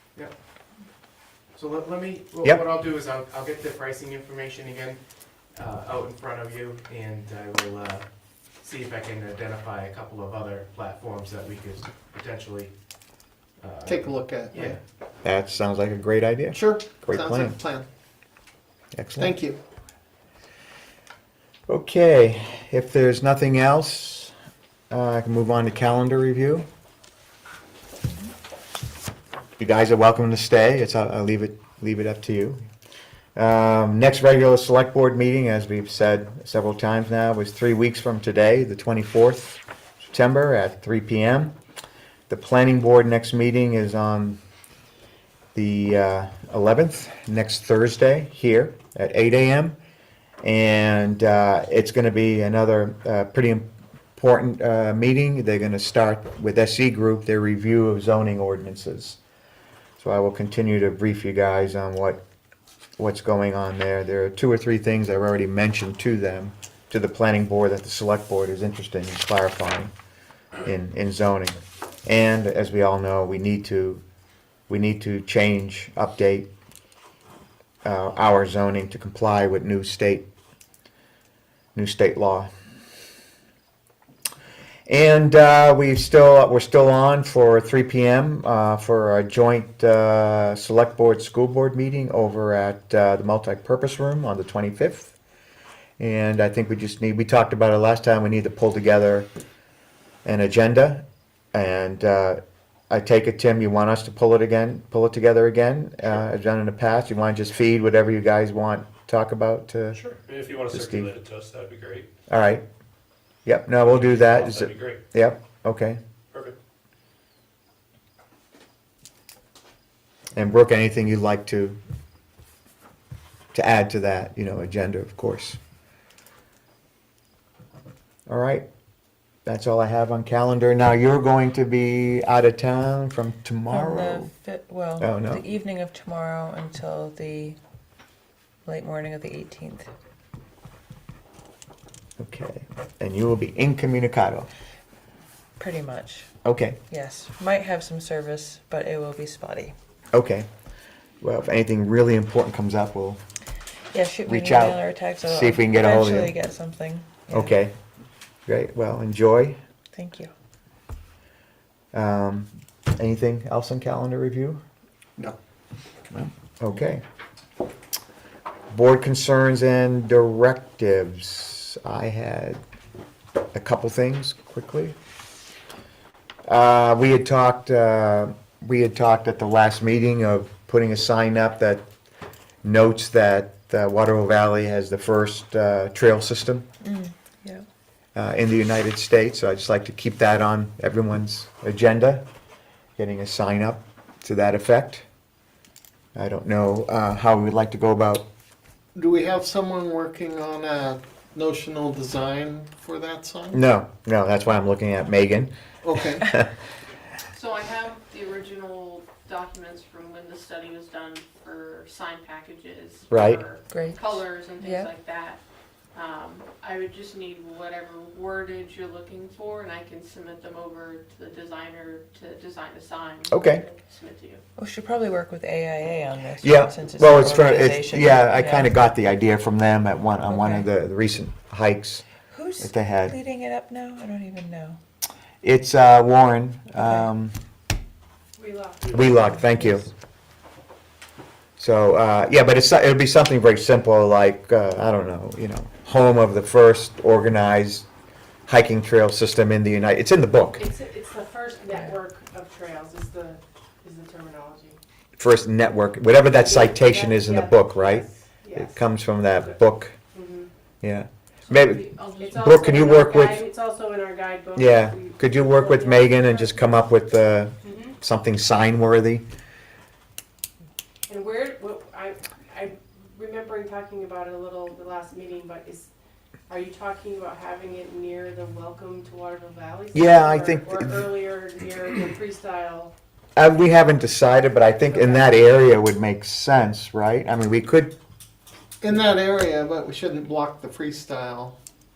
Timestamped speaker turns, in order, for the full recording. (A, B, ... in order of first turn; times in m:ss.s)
0:01.5-0:05.0 A
0:05.5-0:08.0 A
0:08.6-0:12.7 A
0:13.6-0:14.8 A
0:13.8-0:14.8 B
0:15.2-0:17.6 C
0:16.5-0:17.9 B
0:18.9-0:19.4 C
0:19.2-0:19.6 B
0:21.7-0:24.3 C
0:24.9-0:26.7 C
0:29.6-0:32.6 C
0:33.4-0:41.6 C
0:42.3-0:44.4 C
0:45.5-0:49.8 C
0:50.4-0:59.2 C
1:00.0-1:02.2 C
1:03.0-1:09.9 C
1:10.6-1:14.0 C
1:14.7-1:16.5 C
1:17.8-1:20.3 C
1:21.7-1:22.5 C
1:24.9-1:35.2 C
1:36.0-1:39.3 C
1:40.2-1:50.0 C
1:49.9-1:52.1 D
1:50.7-1:51.1 C
1:52.3-1:52.6 C
1:53.4-1:56.0 C
1:53.8-1:55.0 D
1:56.3-1:56.6 D
2:00.3-2:01.8 C
2:03.5-2:05.6 C
2:08.3-2:08.6 C
2:09.4-2:14.3 C
2:13.7-2:17.6 E
2:15.0-2:15.4 C
2:18.6-2:19.9 E
2:22.2-2:24.5 C
2:25.6-2:26.3 E
2:26.4-2:26.8 C
2:26.9-2:29.7 E
2:30.1-2:30.5 C
2:31.2-2:33.2 C
2:33.9-2:37.5 E
2:34.2-2:36.3 C
2:37.3-2:37.7 C
2:38.5-2:39.6 C
2:39.9-2:40.3 E
2:41.9-2:44.6 C
2:46.1-2:47.0 C
2:48.7-2:52.6 C
2:53.5-2:55.0 C
2:56.4-3:01.8 C
3:02.6-3:06.6 C
3:06.8-3:07.6 E
3:08.1-3:12.2 C
3:13.0-3:15.0 C
3:16.1-3:18.2 C
3:18.9-3:23.6 B
3:23.5-3:25.5 C
3:25.8-3:26.3 B
3:27.3-3:35.4 F
3:33.1-3:33.4 C
3:33.7-3:34.9 E
3:35.9-3:44.4 F
3:43.3-3:43.6 C
3:44.6-3:48.7 E
3:46.4-3:52.0 C
3:50.3-3:50.7 E
3:52.3-3:54.8 E
3:52.6-3:53.1 C
3:55.4-3:57.3 C
3:58.4-3:59.1 G
3:58.9-3:59.9 C
4:01.6-4:07.8 C
4:08.5-4:10.6 C
4:10.6-4:14.8 G
4:15.2-4:19.9 C
4:16.4-4:18.8 G
4:20.1-4:20.5 G
4:20.8-4:23.4 C
4:21.5-4:22.3 F
4:22.2-4:26.6 G
4:24.5-4:29.2 C
4:27.6-4:27.9 G
4:31.1-4:35.9 G
4:36.5-4:42.9 G
4:39.9-4:41.1 C
4:43.4-4:47.9 C
4:44.9-4:45.3 G
4:48.8-4:51.6 B